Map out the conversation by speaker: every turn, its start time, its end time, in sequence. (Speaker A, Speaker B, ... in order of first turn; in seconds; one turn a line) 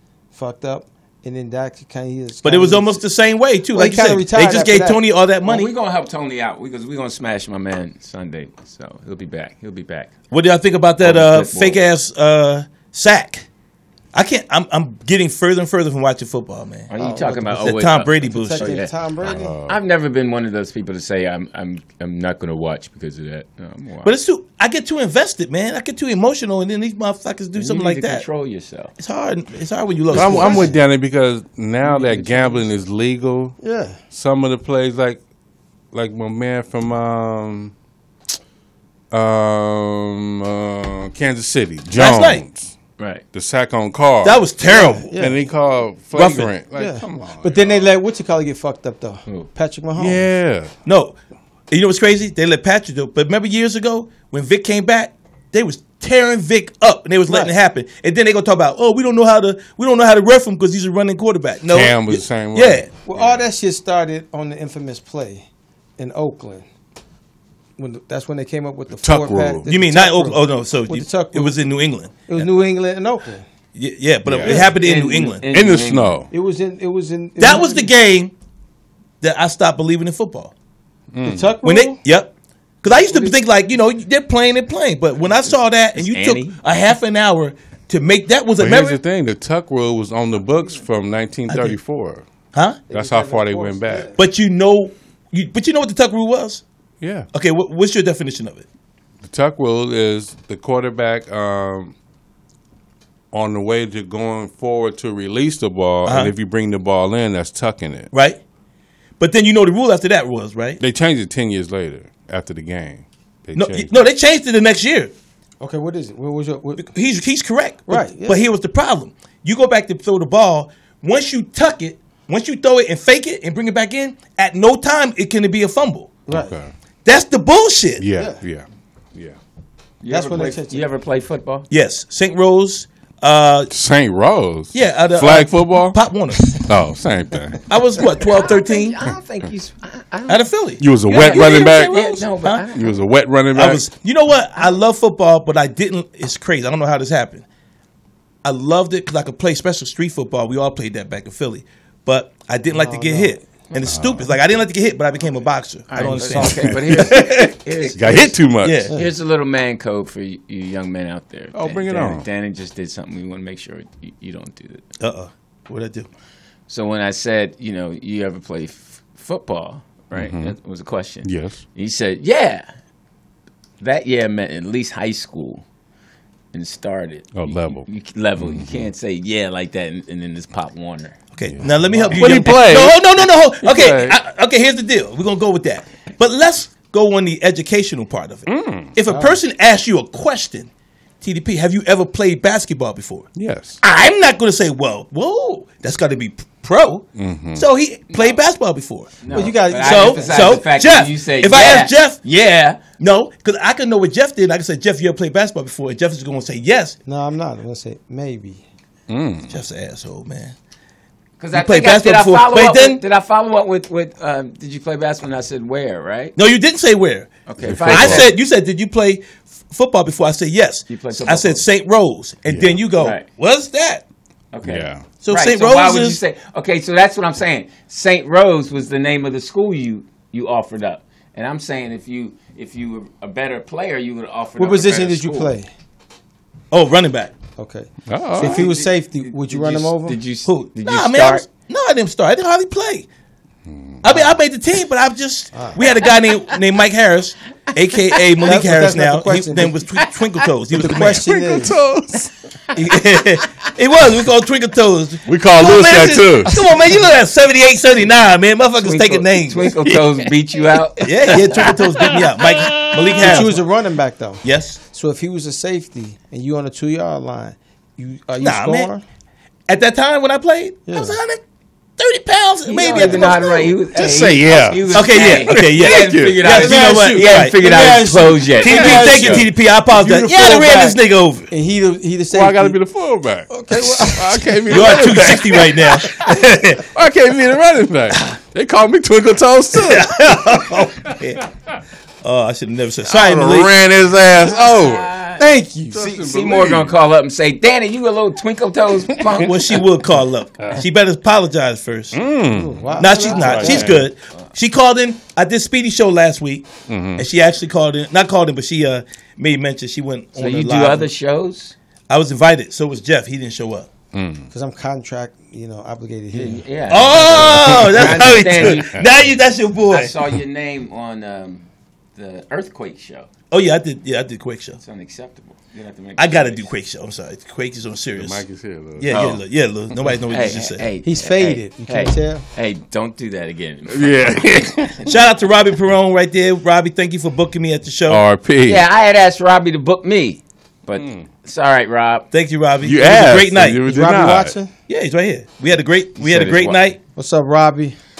Speaker A: 0.3-3.0
Speaker B: 2.4-5.7
Speaker A: 3.7-5.0
Speaker C: 5.4-10.1
Speaker B: 10.3-13.5
Speaker C: 11.0-11.8
Speaker B: 14.1-16.9
Speaker C: 16.9-18.9
Speaker A: 16.9-19.6
Speaker B: 17.5-18.8
Speaker D: 19.2-19.8
Speaker C: 19.7-24.1
Speaker B: 24.0-28.2
Speaker C: 27.6-28.9
Speaker B: 29.0-30.7
Speaker D: 30.1-33.6
Speaker C: 30.1-30.7
Speaker C: 31.8-32.7
Speaker A: 33.6-34.0
Speaker D: 34.1-35.2
Speaker D: 35.9-37.7
Speaker D: 39.1-42.7
Speaker B: 41.9-42.4
Speaker C: 43.0-43.2
Speaker D: 43.3-44.4
Speaker B: 44.2-45.2
Speaker A: 44.6-45.4
Speaker D: 45.2-47.9
Speaker B: 46.1-46.5
Speaker A: 46.7-50.3
Speaker D: 50.0-50.7
Speaker B: 50.9-51.2
Speaker B: 51.7-62.9
Speaker D: 61.7-63.4
Speaker A: 63.1-65.5
Speaker A: 66.0-66.7
Speaker A: 67.8-71.6
Speaker D: 68.9-69.7
Speaker B: 69.7-72.4
Speaker A: 72.3-73.5
Speaker B: 73.8-75.5
Speaker D: 74.3-74.7
Speaker C: 74.5-76.2
Speaker D: 75.5-76.3
Speaker A: 76.3-77.9
Speaker B: 77.4-78.3
Speaker B: 79.2-80.5
Speaker D: 81.1-81.6
Speaker A: 81.2-82.0
Speaker B: 81.6-82.3
Speaker B: 82.8-89.0
Speaker C: 85.3-86.6
Speaker D: 88.6-92.2
Speaker B: 92.5-92.8
Speaker A: 92.9-94.2
Speaker D: 92.9-94.1
Speaker B: 94.2-96.6
Speaker D: 97.0-97.3
Speaker B: 97.3-98.7
Speaker D: 99.2-102.0
Speaker D: 103.3-108.1
Speaker B: 106.1-106.3
Speaker B: 108.1-108.4
Speaker B: 109.2-110.8
Speaker D: 110.8-113.9
Speaker B: 113.6-115.1
Speaker A: 115.6-116.9
Speaker B: 116.8-126.1
Speaker A: 117.9-118.5
Speaker A: 126.3-126.6
Speaker D: 126.3-126.7
Speaker B: 127.0-128.1
Speaker D: 128.0-129.4
Speaker A: 128.2-128.4
Speaker C: 130.0-131.7
Speaker A: 130.1-130.8
Speaker B: 131.7-133.7
Speaker D: 133.7-137.7
Speaker B: 134.7-136.6
Speaker B: 137.7-139.0
Speaker C: 138.3-140.4
Speaker B: 140.3-142.7
Speaker D: 140.8-142.0
Speaker C: 141.1-142.9
Speaker D: 142.7-143.8
Speaker B: 143.5-147.5
Speaker B: 148.4-157.5
Speaker A: 152.7-153.4
Speaker D: 153.8-154.3
Speaker C: 155.9-158.3
Speaker D: 156.0-158.9
Speaker B: 158.6-158.9
Speaker C: 158.9-164.8
Speaker D: 161.5-162.3
Speaker B: 165.0-166.1
Speaker C: 166.7-172.7
Speaker D: 170.1-170.6
Speaker D: 171.2-171.6
Speaker C: 173.8-175.7
Speaker C: 176.5-181.2
Speaker D: 177.3-177.9
Speaker D: 178.4-178.9
Speaker B: 181.3-190.7
Speaker D: 181.5-184.2
Speaker A: 182.0-182.4
Speaker D: 188.5-188.9
Speaker A: 189.1-189.4
Speaker B: 191.2-193.3
Speaker D: 193.3-193.8
Speaker B: 193.8-199.1
Speaker D: 197.2-197.7
Speaker C: 198.1-198.4
Speaker C: 199.2-202.8
Speaker A: 199.3-200.7
Speaker B: 199.7-202.2
Speaker B: 203.0-207.0
Speaker A: 207.1-208.7
Speaker D: 209.1-209.5
Speaker B: 209.5-210.6
Speaker C: 211.4-216.3
Speaker B: 211.5-213.0
Speaker B: 216.4-224.0
Speaker C: 217.5-218.3
Speaker D: 217.6-218.3
Speaker C: 220.9-221.7
Speaker D: 222.5-222.8
Speaker C: 223.0-223.3
Speaker C: 224.5-235.6
Speaker D: 224.6-225.1
Speaker B: 225.2-226.2
Speaker A: 234.6-235.7
Speaker B: 236.7-237.3
Speaker A: 237.6-240.2
Speaker D: 238.1-238.7
Speaker C: 238.4-241.5
Speaker B: 240.5-243.1
Speaker D: 243.7-244.0
Speaker B: 244.0-251.3
Speaker A: 245.5-245.8
Speaker A: 248.4-249.8
Speaker A: 250.7-251.8
Speaker D: 251.1-252.3
Speaker B: 252.8-259.7
Speaker D: 255.3-256.5
Speaker C: 258.8-261.4
Speaker D: 259.8-260.2
Speaker B: 261.0-263.6
Speaker D: 261.7-263.4
Speaker A: 263.2-269.0
Speaker B: 264.4-264.8
Speaker B: 268.4-268.9
Speaker B: 269.7-271.4
Speaker A: 270.9-271.2
Speaker B: 272.0-273.8
Speaker C: 272.7-279.4
Speaker A: 273.0-273.3
Speaker D: 273.9-276.7
Speaker B: 274.9-277.6
Speaker A: 276.4-279.4
Speaker B: 278.6-281.5
Speaker D: 278.7-279.5
Speaker A: 279.9-281.0
Speaker D: 280.1-280.8
Speaker A: 281.5-282.8
Speaker D: 282.3-286.1
Speaker A: 283.5-284.8
Speaker B: 284.7-286.9
Speaker D: 286.9-291.1
Speaker B: 289.7-291.4
Speaker B: 292.2-293.7
Speaker D: 293.1-295.2
Speaker C: 294.4-295.4
Speaker A: 295.4-296.2
Speaker D: 295.9-296.9
Speaker C: 296.0-299.8
Speaker B: 299.4-302.2
Speaker D: 302.1-304.0
Speaker A: 302.5-304.1
Speaker B: 303.0-311.1
Speaker D: 306.9-307.2
Speaker C: 310.4-311.8
Speaker B: 312.1-313.9
Speaker D: 314.1-314.5
Speaker A: 314.5-316.6
Speaker C: 316.3-319.0
Speaker B: 316.9-320.1
Speaker D: 317.8-319.1
Speaker C: 319.9-323.3
Speaker B: 323.5-324.8
Speaker C: 324.8-326.7
Speaker B: 326.2-328.4
Speaker D: 328.2-329.1
Speaker B: 329.0-330.9
Speaker C: 329.1-329.4
Speaker C: 330.0-334.7
Speaker A: 331.0-332.4
Speaker D: 333.9-335.1
Speaker B: 335.0-338.2
Speaker D: 338.1-338.9
Speaker C: 338.7-342.3
Speaker D: 341.0-341.3
Speaker B: 342.3-343.8
Speaker D: 342.8-344.6
Speaker A: 343.8-344.7
Speaker B: 344.9-347.0
Speaker C: 346.2-346.8
Speaker A: 347.2-348.0